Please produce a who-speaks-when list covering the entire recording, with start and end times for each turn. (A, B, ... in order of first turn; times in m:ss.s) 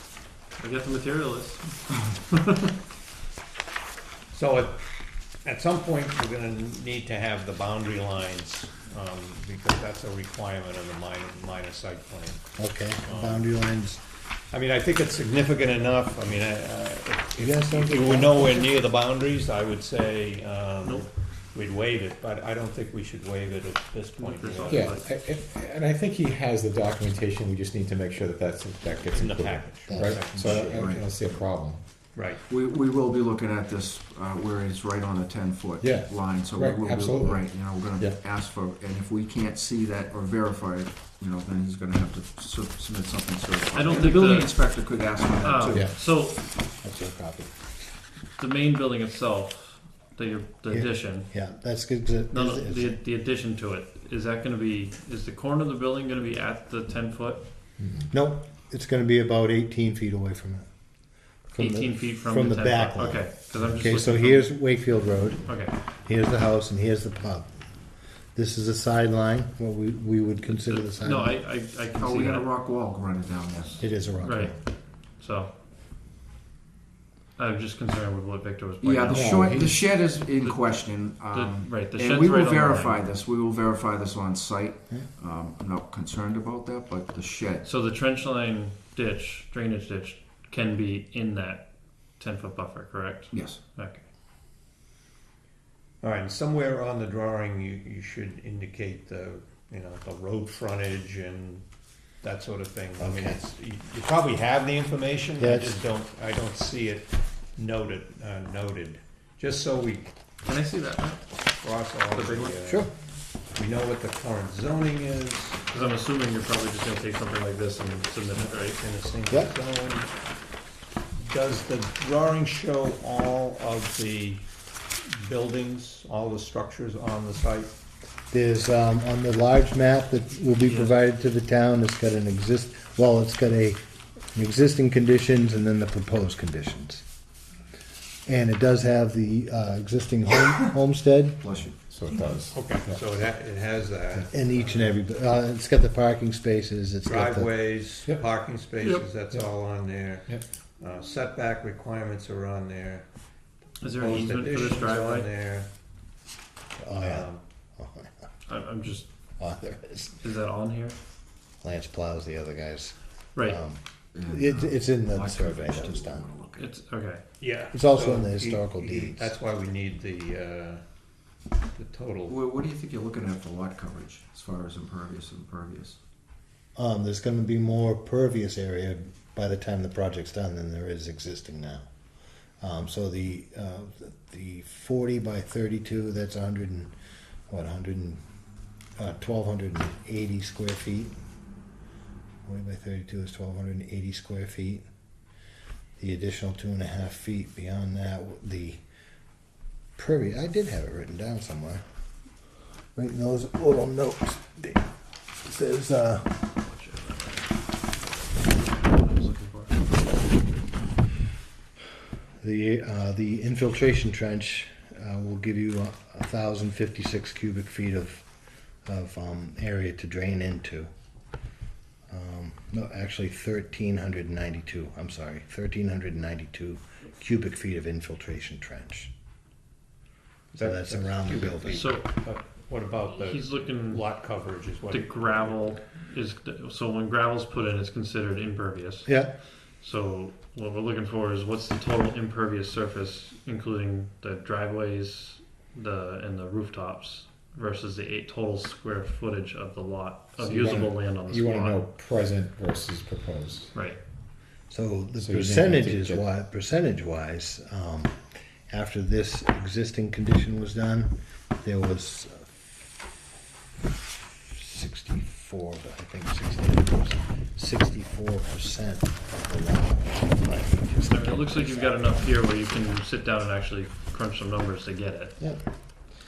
0:00.6-0:02.7 A
0:04.3-0:04.8 B
0:05.4-0:12.4 B
0:12.6-0:14.0 C
0:13.0-0:13.5 B
0:14.5-0:25.1 B
0:17.4-0:18.7 C
0:24.2-0:25.0 A
0:24.7-0:31.8 D
0:29.1-0:30.5 B
0:29.9-0:30.8 C
0:30.5-0:31.1 E
0:32.1-0:32.4 B
0:32.5-0:45.8 E
0:35.8-0:38.2 D
0:43.7-0:44.8 A
0:45.4-0:46.4 A
0:45.7-0:46.0 D
0:46.8-0:47.5 C
0:48.4-0:51.3 A
0:50.7-0:53.0 C
0:52.3-0:57.4 A
0:57.8-0:58.1 D
0:58.1-1:00.7 C
1:01.5-1:07.5 C
1:01.6-1:04.6 A
1:05.4-1:05.7 A
1:08.3-1:11.4 C
1:10.4-1:12.5 A
1:12.0-1:13.8 E
1:13.8-1:14.6 C
1:14.2-1:14.6 A
1:15.1-1:15.5 A
1:17.4-1:19.4 A
1:18.8-1:27.7 E
1:19.1-1:19.8 D
1:20.4-1:23.0 A
1:27.6-1:34.0 A
1:33.3-1:33.6 E
1:36.0-1:41.6 B
1:42.2-1:50.1 B
1:43.0-1:43.4 C
1:45.4-1:45.8 C
1:50.4-1:51.2 A
1:51.6-1:52.9 B
1:52.1-1:52.6 A
1:52.6-1:52.9 C
1:53.6-1:56.0 B
1:55.7-1:58.8 A
1:58.4-2:00.1 B
2:01.2-2:04.4 B
2:05.1-2:07.7 B
2:08.3-2:13.8 C
2:10.6-2:10.9 A
2:14.3-2:17.0 C
2:18.3-2:21.4 C
2:21.4-2:21.8 E
2:21.9-2:23.0 D
2:22.5-2:25.0 B
2:24.3-2:27.5 C
2:27.0-2:33.1 B
2:33.8-2:35.3 A
2:33.8-2:35.7 B
2:36.8-2:38.1 C
2:37.0-2:37.4 B
2:38.5-2:39.1 A
2:39.4-2:40.2 C
2:40.1-2:41.0 A
2:41.6-2:46.3 C
2:44.1-2:46.7 E
2:46.6-2:47.3 A
2:47.4-2:50.8 B
2:47.7-2:49.3 C
2:51.8-2:52.4 B
2:52.3-2:56.0 E
2:56.8-3:01.9 C
3:02.6-3:06.9 C
3:07.5-3:08.2 C
3:09.0-3:11.2 C
3:12.4-3:14.8 C
3:16.0-3:18.8 C
3:20.0-3:21.8 C
3:23.0-3:24.8 C
3:25.4-3:26.4 C
3:26.6-3:30.4 A
3:32.4-3:38.3 C
3:38.8-3:40.9 C
3:42.1-3:49.1 C
3:50.5-3:55.8 B
3:50.6-3:51.9 C
3:51.7-3:52.0 A
3:53.2-3:54.0 A
3:54.9-3:59.2 A
3:59.0-3:59.3 C
3:59.8-4:11.8 A
4:10.4-4:13.8 D
4:13.7-4:14.0 A
4:14.7-4:22.4 C
4:15.2-4:16.3 D
4:24.5-4:32.3 C
4:31.1-4:35.4 A